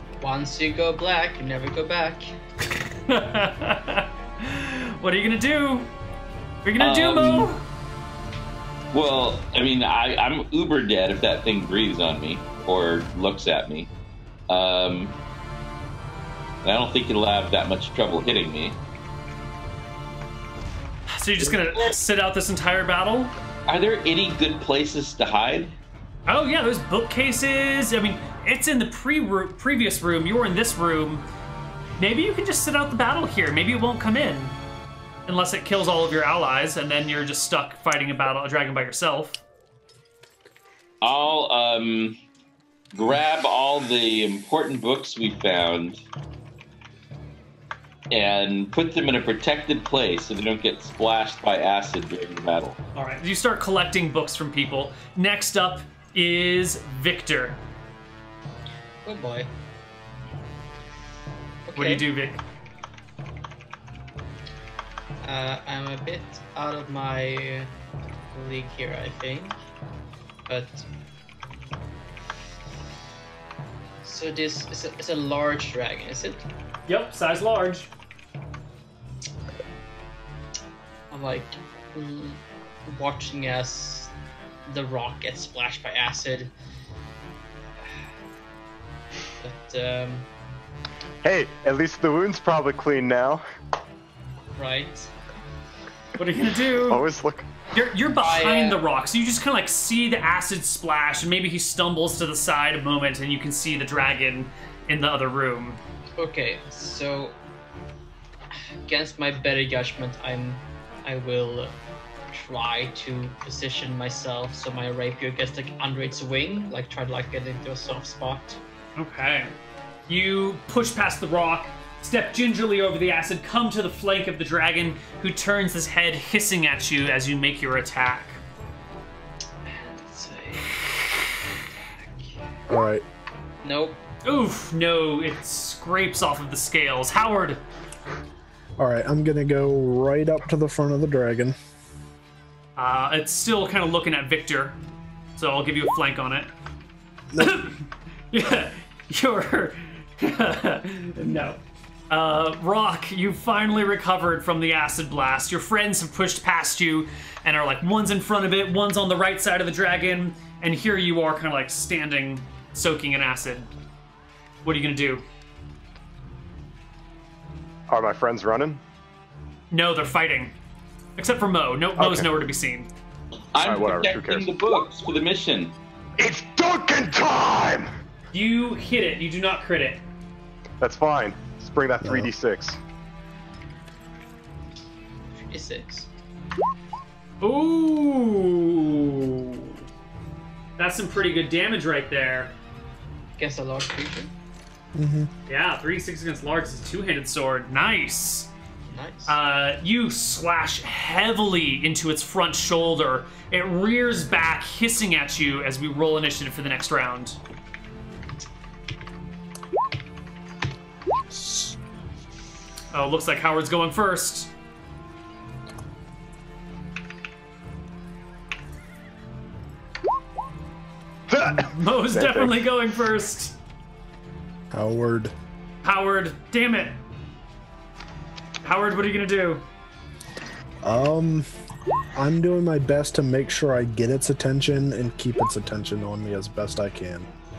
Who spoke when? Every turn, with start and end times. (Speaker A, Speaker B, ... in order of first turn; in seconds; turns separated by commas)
Speaker A: 0.2-2.3, Speaker B: 2.8-5.9, Speaker B: 6.7-7.6, Speaker C: 6.8-7.5, Speaker C: 8.9-13.9, Speaker C: 14.5-15.1, Speaker C: 16.6-18.8, Speaker B: 21.1-23.3, Speaker C: 23.7-25.8, Speaker B: 26.3-31.2, Speaker B: 32.0-34.5, Speaker B: 35.3-39.4, Speaker C: 41.0-42.2, Speaker C: 42.9-46.0, Speaker C: 48.1-52.8, Speaker B: 53.0-57.6, Speaker A: 59.0-59.5, Speaker A: 61.7-62.1, Speaker B: 61.8-62.4, Speaker A: 65.2-67.7, Speaker A: 68.3-69.6, Speaker A: 70.5-70.9, Speaker A: 74.0-76.5, Speaker B: 76.9-77.9, Speaker A: 81.1-84.1, Speaker A: 84.7-86.5, Speaker A: 87.8-88.1, Speaker A: 89.4-90.3, Speaker D: 91.2-93.4, Speaker A: 94.5-95.1, Speaker B: 96.2-97.0, Speaker D: 96.8-97.6, Speaker B: 97.7-105.8, Speaker A: 98.2-98.8, Speaker A: 106.2-107.3, Speaker A: 108.5-111.8, Speaker A: 112.3-118.6, Speaker B: 119.0-119.5, Speaker B: 120.1-128.4, Speaker A: 129.7-132.4, Speaker E: 132.7-133.1, Speaker A: 133.6-134.0, Speaker B: 134.2-137.6, Speaker E: 138.8-141.6, Speaker B: 142.8-144.8, Speaker B: 145.4-146.5, Speaker E: 147.3-147.7, Speaker B: 147.4-163.7, Speaker B: 164.6-165.2, Speaker D: 167.9-168.8, Speaker B: 169.7-170.5, Speaker B: 171.2-172.9, Speaker D: 172.0-172.3, Speaker C: 173.5-175.8, Speaker D: 173.6-174.5, Speaker D: 176.2-177.9, Speaker B: 178.3-180.0, Speaker D: 180.8-182.8, Speaker E: 182.0-182.3, Speaker A: 185.4-186.1, Speaker B: 187.4-189.8, Speaker B: 190.8-192.5, Speaker A: 193.4-194.3, Speaker E: 194.9-195.3, Speaker B: 195.5-198.5, Speaker A: 198.9-199.4, Speaker B: 199.3-207.4, Speaker B: 212.9-214.5, Speaker D: 221.3-222.6, Speaker B: 221.5-223.6, Speaker E: 224.7-225.3, Speaker B: 225.8-227.0, Speaker B: 228.6-229.6, Speaker E: 230.8-231.5, Speaker E: 232.2-237.3